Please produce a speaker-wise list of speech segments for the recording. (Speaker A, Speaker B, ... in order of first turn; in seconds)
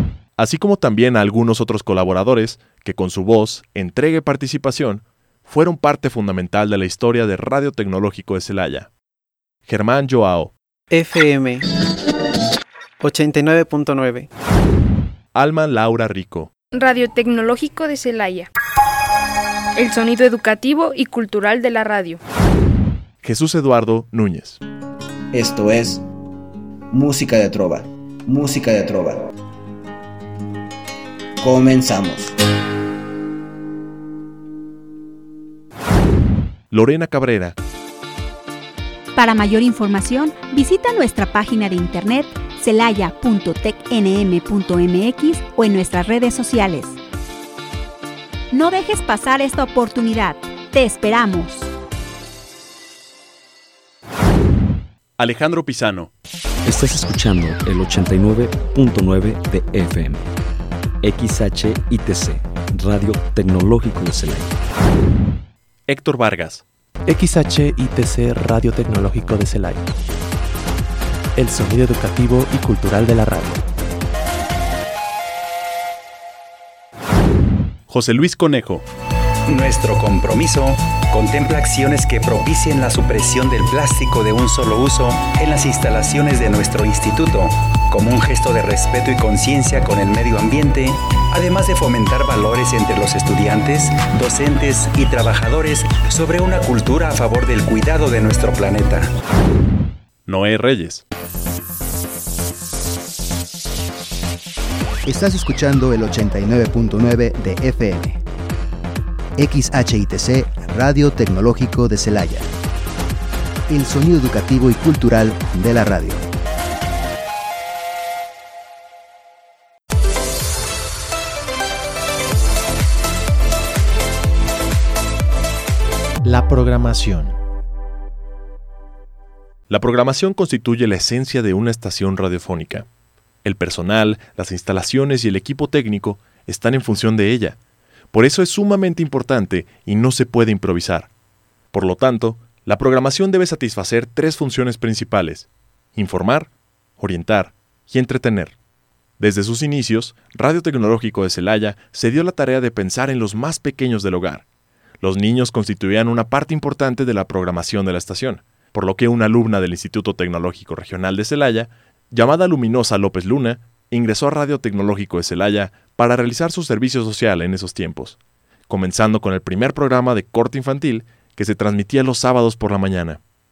Speaker A: 0.4-8.9, 9.7-10.5, 15.3-16.5, 23.2-24.6, 36.7-37.5, 55.2-56.1, 65.9-66.6, 77.9-78.8, 100.2-101.0, 129.7-132.8, 133.4-137.6, 138.1-141.1, 141.7-148.5, 149.2-154.4, 155.0-168.2, 168.7-173.2
Speaker B: 10.9-11.7, 13.0-14.3, 56.6-60.2, 61.0-64.5
Speaker C: 16.7-18.5, 19.8-22.2
Speaker D: 25.3-26.0, 26.9-29.2, 31.4-32.3
Speaker E: 39.1-47.0, 48.5-51.7
Speaker F: 67.1-69.8, 71.3-73.6, 126.2-127.3
Speaker G: 79.5-99.1
Speaker H: 105.1-108.1, 109.4-112.4, 113.7-116.2